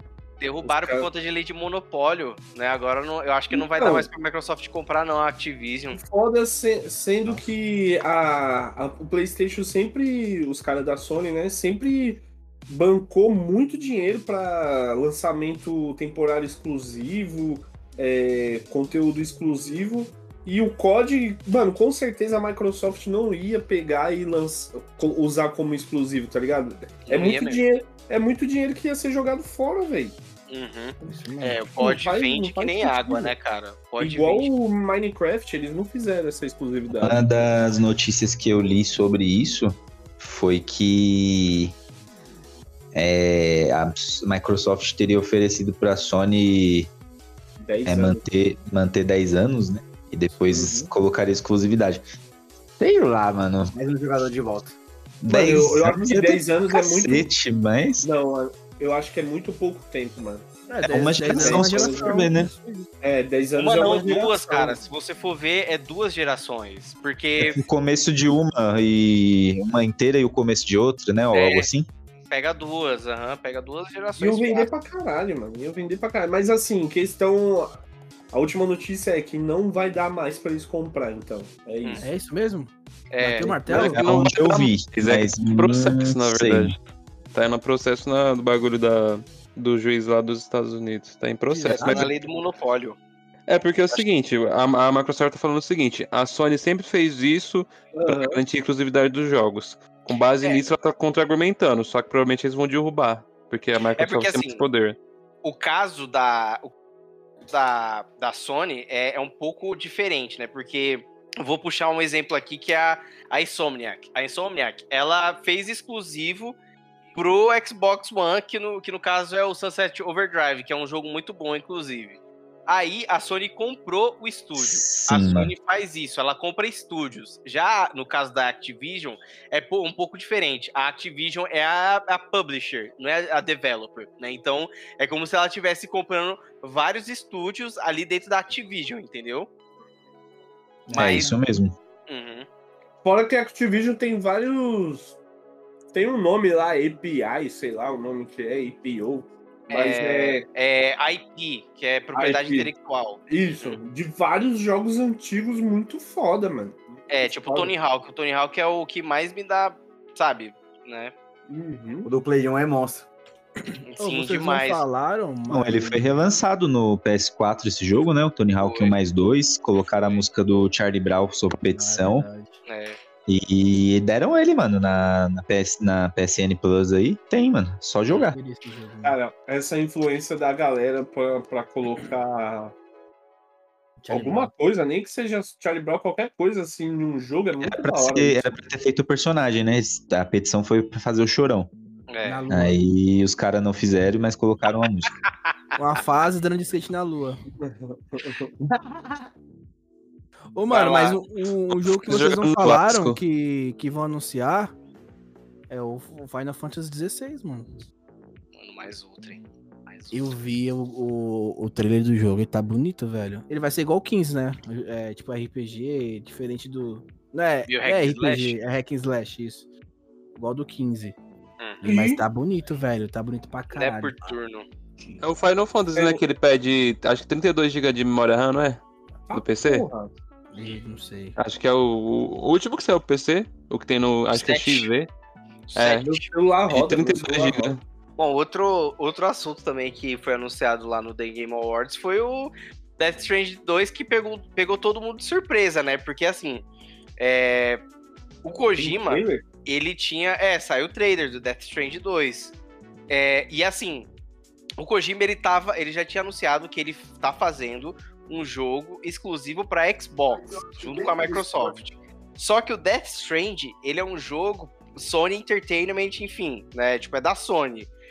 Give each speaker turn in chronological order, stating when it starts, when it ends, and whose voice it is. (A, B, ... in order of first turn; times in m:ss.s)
0:00.4-0:06.0 A
0:00.6-0:01.1 B
0:03.5-0:04.1 B
0:05.9-0:30.2 B
0:27.1-0:27.6 A
0:30.5-0:34.5 A
0:31.0-0:31.6 C
0:31.8-0:33.3 B
0:34.0-0:37.2 B
0:36.9-0:41.7 D
0:42.9-0:46.9 D
0:47.6-0:48.2 B
0:47.8-0:52.0 D
0:50.5-0:50.9 B
0:52.8-0:53.7 D
0:53.7-0:54.8 E
0:55.2-0:58.1 D
0:55.3-0:57.3 B
0:58.0-1:00.5 B
1:00.7-1:02.9 C
1:00.8-1:02.5 D
1:01.3-1:02.3 B
1:03.0-1:04.8 B
1:03.6-1:07.6 A
1:07.4-1:11.9 D
1:11.3-1:11.7 A
1:12.3-1:14.7 A
1:14.2-1:17.8 B
1:18.3-1:22.0 B
1:22.0-1:24.2 C
1:23.1-1:23.6 A
1:23.7-1:26.7 D
1:23.8-1:26.7 F
1:27.3-1:32.1 F
1:31.5-1:32.0 C
1:31.6-1:33.0 A
1:33.5-1:45.0 F
1:37.9-1:38.4 B
1:40.4-1:40.7 A
1:44.0-1:44.6 A
1:45.4-1:46.7 A
1:47.5-1:56.6 A
1:57.1-2:19.5 A
2:04.6-2:05.5 D
2:20.9-2:21.3 C
2:20.9-2:21.3 A
2:20.9-2:21.7 D
2:22.1-2:22.5 A
2:23.0-2:25.2 B
2:25.9-2:30.4 B
2:29.7-2:33.8 A
2:32.1-2:32.7 B
2:33.3-2:37.7 B
2:37.1-2:41.1 A
2:41.5-2:42.1 B
2:42.0-2:43.1 E
2:43.7-2:46.2 C
2:43.9-2:44.8 A
2:45.5-2:52.2 D
2:48.6-2:48.9 A
2:49.7-2:50.2 A
2:51.7-2:52.6 C
2:52.6-2:53.0 A
2:53.3-2:58.3 D
2:58.2-2:59.2 C
2:59.0-3:02.7 B
3:04.0-3:04.5 C
3:04.1-3:08.5 B
3:07.6-3:11.7 D
3:12.1-3:12.4 A
3:12.2-3:12.8 C
3:12.5-3:15.1 D
3:15.8-3:17.4 C
3:17.6-3:18.5 B
3:20.5-3:24.7 C
3:20.7-3:21.2 A
3:21.8-3:23.2 F
3:25.7-3:27.8 C
3:28.6-3:30.4 A
3:30.1-3:39.7 C
3:37.7-3:38.6 A
3:40.4-3:41.2 C
3:41.8-3:42.2 B
3:41.8-3:44.3 C
3:43.7-3:44.6 A
3:45.2-3:48.8 F
3:45.9-3:46.2 B
3:49.3-3:50.1 B
3:49.3-3:49.9 F
3:50.5-3:51.4 C
3:51.4-3:55.1 F
3:54.3-3:54.9 A
3:55.7-3:56.2 A
3:55.7-3:56.1 F
3:56.0-3:57.8 B
3:56.7-3:57.8 F
3:58.2-4:06.6 A
4:07.2-4:07.8 A
4:08.4-4:12.5 A
4:08.8-4:09.4 B
4:13.1-4:14.1 A
4:14.8-4:27.9 A
4:20.5-4:21.7 B